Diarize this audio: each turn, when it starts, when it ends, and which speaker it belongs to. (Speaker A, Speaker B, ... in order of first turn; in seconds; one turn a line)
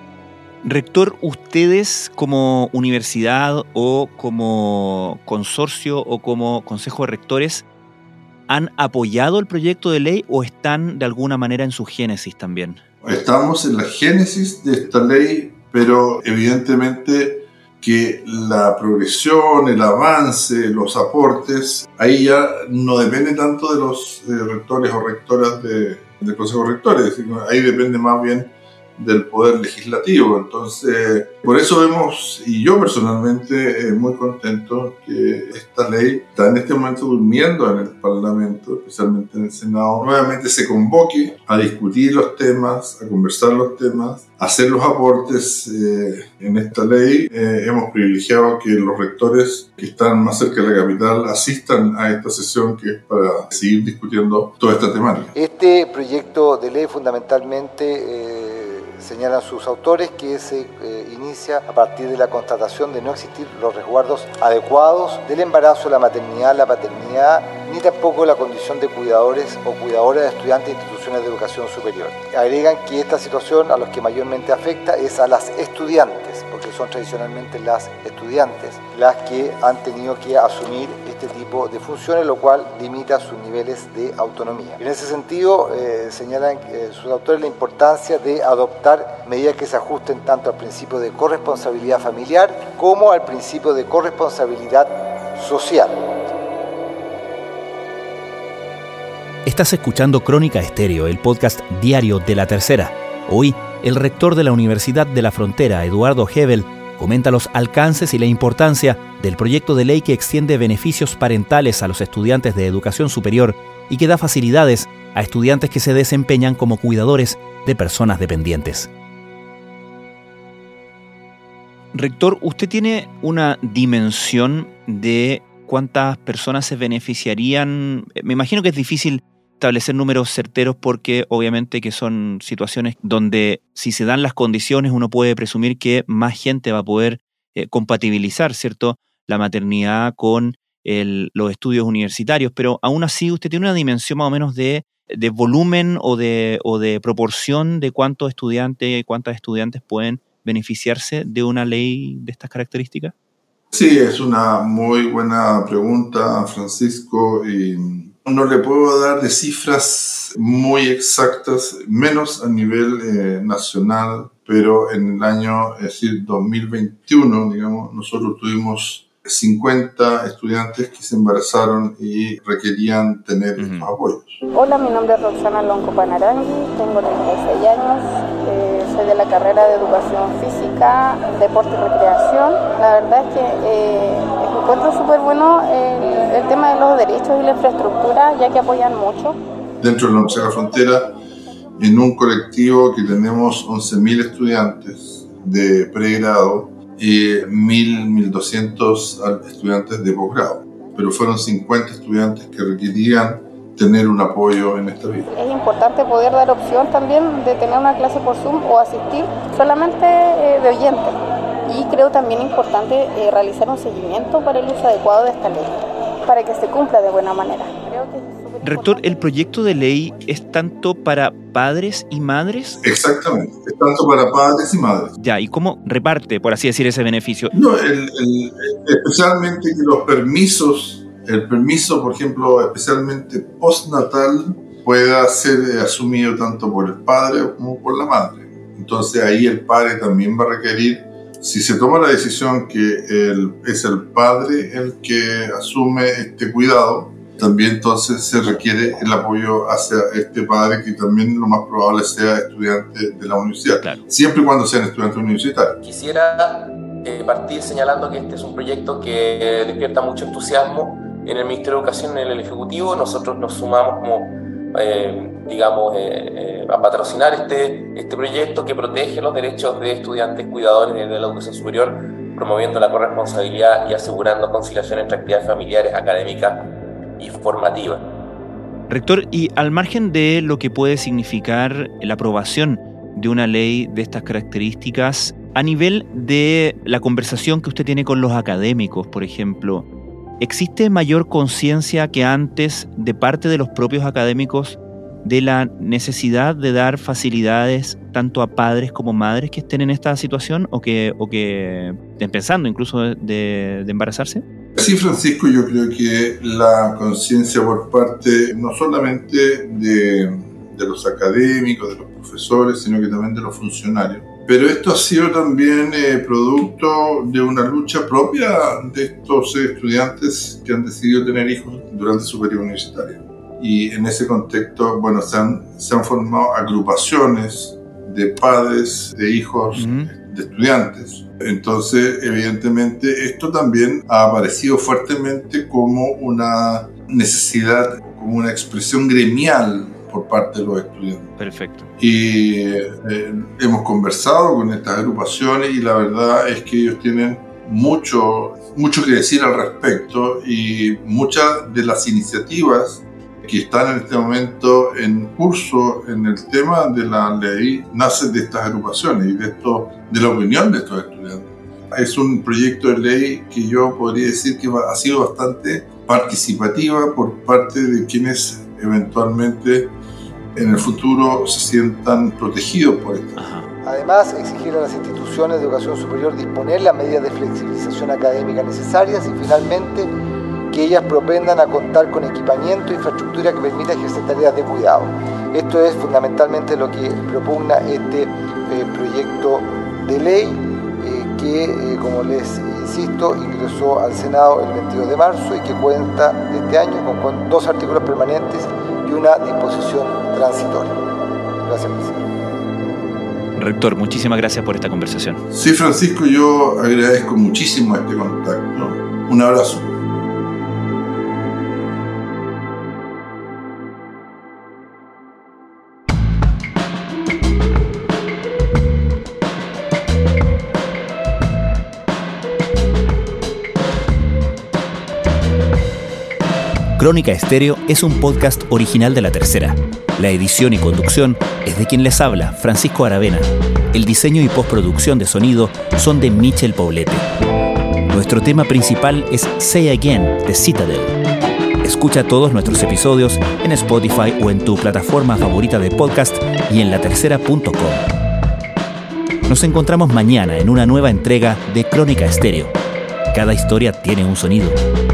Speaker A: 0.6-7.7
Speaker A: 8.5-12.8
Speaker B: 13.0-55.3
Speaker C: 55.3-96.0
Speaker A: 99.5-118.9
Speaker A: 121.9-153.1
Speaker B: 153.7-174.4
Speaker A: 173.6-173.9
Speaker D: 174.5-189.4
Speaker B: 189.8-191.2
Speaker B: 191.8-205.3
Speaker D: 205.3-219.3
Speaker A: 218.6-222.8
Speaker B: 222.8-225.2
Speaker A: 225.2-227.5
Speaker B: 227.5-255.8
Speaker A: 253.8-254.1
Speaker E: 256.1-276.6
Speaker E: 277.2-278.0
Speaker A: 278.9-289.9
Speaker A: 290.4-304.4
Speaker B: 304.8-341.3
Speaker A: 329.8-330.1
Speaker A: 341.4-341.9
Speaker B: 342.0-369.9
Speaker B: 370.6-373.4
Speaker A: 373.4-373.7
Speaker C: 373.9-380.1
Speaker C: 380.7-401.0
Speaker C: 401.6-402.3
Speaker A: 403.6-405.4
Speaker B: 405.5-410.0
Speaker A: 427.0-437.3
Speaker A: 438.1-441.1
Speaker A: 441.8-448.1
Speaker A: 449.5-452.8
Speaker A: 453.3-454.8